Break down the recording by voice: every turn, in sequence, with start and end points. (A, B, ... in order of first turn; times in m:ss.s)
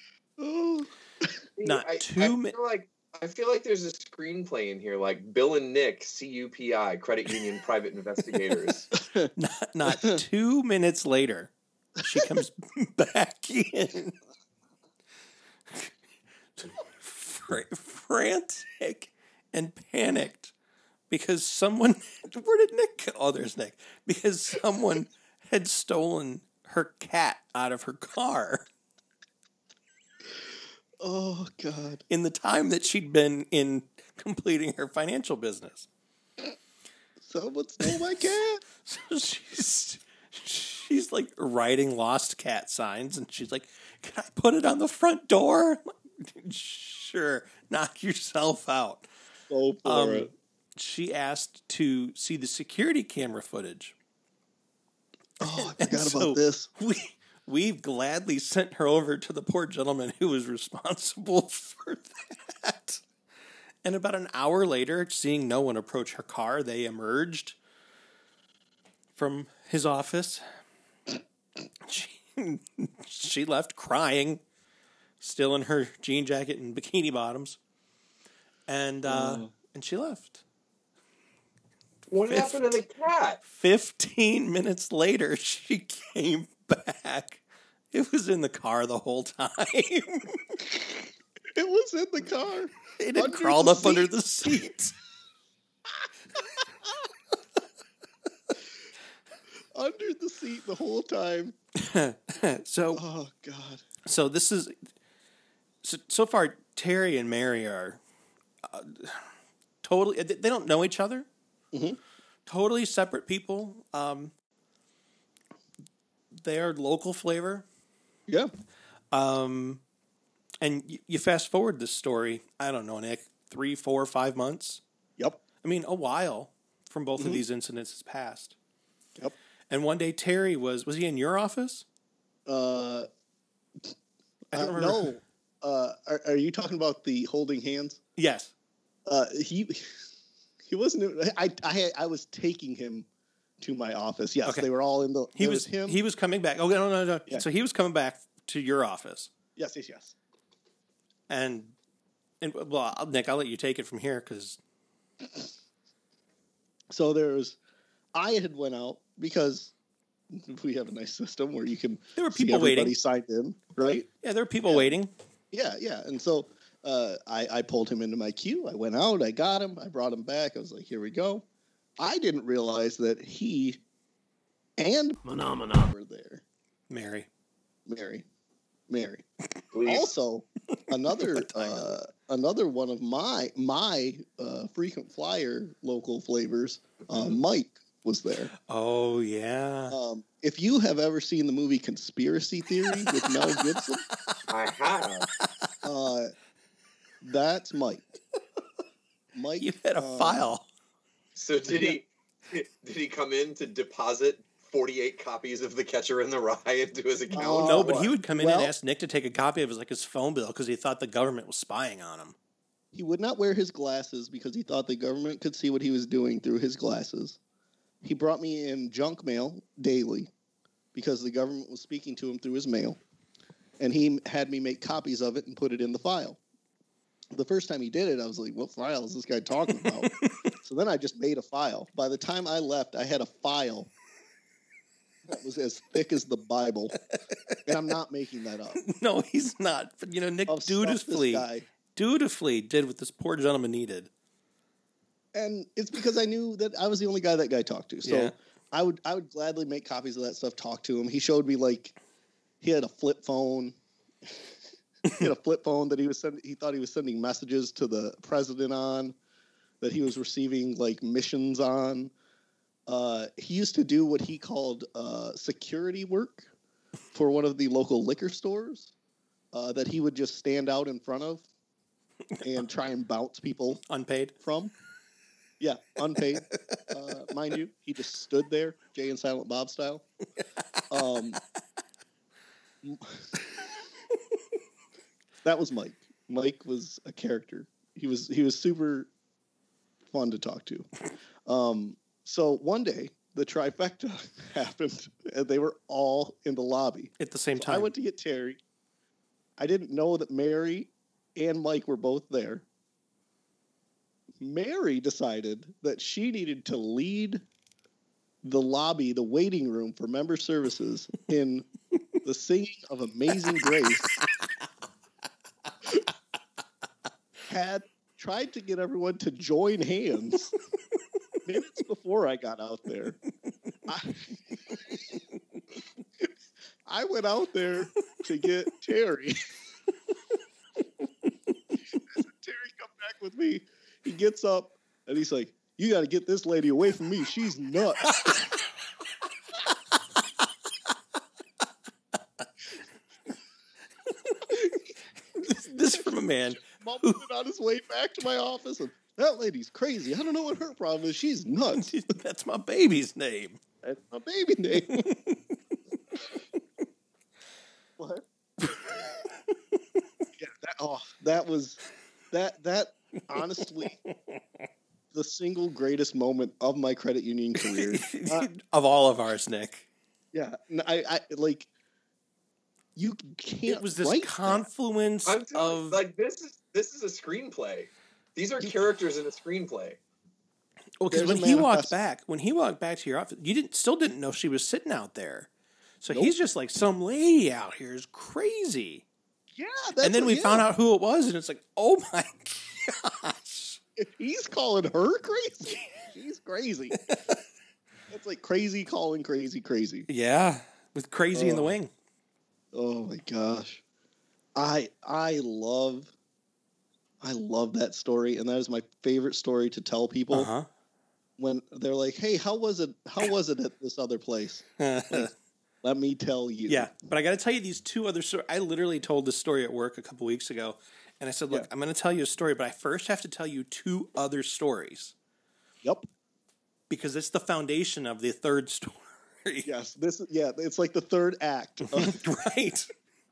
0:00.4-0:01.3 A
0:01.6-0:08.9 B
0:01.6-0:02.6 C
0:09.0-0:09.3 A
0:09.4-0:11.5 C
0:09.9-0:10.2 A
0:12.0-0:14.2 C
0:16.6-0:20.5 C
0:21.1-0:28.7 C
0:31.0-0:32.0 A
0:32.1-0:35.9 C
0:37.2-0:38.6 A
0:38.8-0:49.1 C
0:49.5-0:50.3 A
0:49.8-0:54.0 C
0:55.4-0:56.7 A
0:55.4-1:03.0 C
1:03.8-1:07.6 C
1:09.2-1:10.4 C
1:11.8-1:14.4 C
1:15.2-1:17.6 C
1:18.7-1:20.4 C
1:19.1-1:19.5 A
1:22.1-1:23.4 B
1:22.3-1:22.8 C
1:23.4-1:27.4 C
1:27.9-1:30.4 C
1:31.5-1:34.6 A
1:33.0-1:34.9 C
1:36.4-1:37.1 A
1:39.7-1:41.6 A
1:41.8-1:43.0 C
1:42.9-1:43.9 A
1:44.0-1:44.8 C
1:45.8-1:48.0 C
1:48.6-1:49.3 C
1:49.8-1:51.3 C
1:51.7-1:52.0 A
1:52.5-1:54.3 C
1:56.4-1:57.6 C
1:59.1-1:59.8 C
2:00.6-2:04.8 C
2:05.6-2:08.6 C
2:07.2-2:07.4 A
2:09.7-2:11.8 C
2:12.5-2:13.1 A
2:14.5-2:15.2 C
2:14.5-2:18.0 A
2:18.2-2:18.5 C
2:19.1-2:20.0 A
2:20.6-2:23.1 A
2:23.6-2:26.0 A
2:25.4-2:29.3 C
2:29.6-2:30.2 A
2:31.3-2:31.8 C
2:32.4-2:34.6 C
2:36.9-2:37.6 A
2:38.1-2:39.7 A
2:40.3-2:44.1 A
2:42.2-2:43.0 C
2:44.2-2:45.1 C
2:44.7-2:45.0 A
2:45.5-2:51.4 A
2:52.0-2:53.8 A
2:54.8-2:56.4 A
2:56.9-2:57.3 C
2:57.9-2:58.2 A
2:58.9-2:59.2 A
2:59.7-3:00.1 B
2:59.8-3:08.5 A
3:01.1-3:02.0 C
3:08.7-3:10.0 C
3:09.9-3:14.0 A
3:12.9-3:14.4 C
3:14.5-3:15.3 B
3:15.8-3:16.3 A
3:17.2-3:18.2 A
3:19.3-3:20.5 A
3:19.6-3:20.7 C
3:21.4-3:28.1 B
3:21.7-3:22.0 A
3:27.3-3:28.7 A
3:27.6-3:32.4 C
3:32.9-3:37.4 A
3:38.0-3:40.3 A
3:40.9-3:43.0 A
3:43.8-3:46.4 A
3:47.3-3:53.9 A
3:49.8-3:50.3 C
3:55.3-3:57.0 A
3:57.1-3:57.6 C
3:57.7-3:58.8 A
3:58.8-4:04.1 C
4:00.5-4:01.6 A
4:05.3-4:12.0 A
4:08.0-4:08.3 C
4:12.6-4:13.8 A
4:15.2-4:19.2 A
4:19.8-4:22.1 A
4:22.9-4:26.5 A
4:27.1-4:28.9 A
4:29.5-4:31.5 A
4:32.4-4:33.8 A
4:33.9-4:34.4 C
4:34.4-4:34.7 A
4:35.6-4:40.1 A
4:40.9-4:41.4 A
4:42.8-4:43.4 A
4:45.4-4:49.1 A
4:50.1-4:50.9 A
4:51.5-4:58.6 A
4:57.2-4:57.9 C
4:59.6-5:02.6 A
5:04.4-5:07.4 A
5:08.4-5:11.7 A
5:12.2-5:14.2 A
5:17.5-5:20.5 A
5:21.5-5:23.2 A
5:23.9-5:25.2 A
5:26.9-5:29.4 A
5:32.1-5:38.4 A
5:38.1-5:38.4 C
5:44.5-5:44.8 A
5:45.4-5:47.2 C
5:45.9-5:51.9 A
5:51.7-5:53.6 C
5:53.8-5:55.0 A
5:54.9-5:55.6 C
5:58.0-5:58.2 A
6:00.4-6:01.8 A
6:02.3-6:04.0 A
6:04.1-6:04.4 C
6:05.1-6:08.5 A
6:07.6-6:09.9 C
6:10.3-6:11.7 A
6:13.0-6:14.7 A
6:13.7-6:16.0 C
6:15.3-6:20.0 B
6:21.0-6:25.5 C
6:21.1-6:21.9 A
6:26.0-6:29.0 C
6:29.6-6:30.7 A
6:30.0-6:33.8 C
6:34.0-6:37.0 A
6:38.1-6:40.1 A
6:40.1-6:41.9 C
6:41.3-6:41.8 A
6:42.7-6:43.8 A
6:44.6-6:46.1 A
6:47.2-6:50.5 A
6:50.3-6:50.7 C
6:51.4-6:55.3 A
6:54.8-6:55.3 C
6:55.8-6:56.9 A
6:56.7-7:05.1 C
7:06.9-7:09.7 C
7:09.6-7:12.2 A
7:11.9-7:12.9 C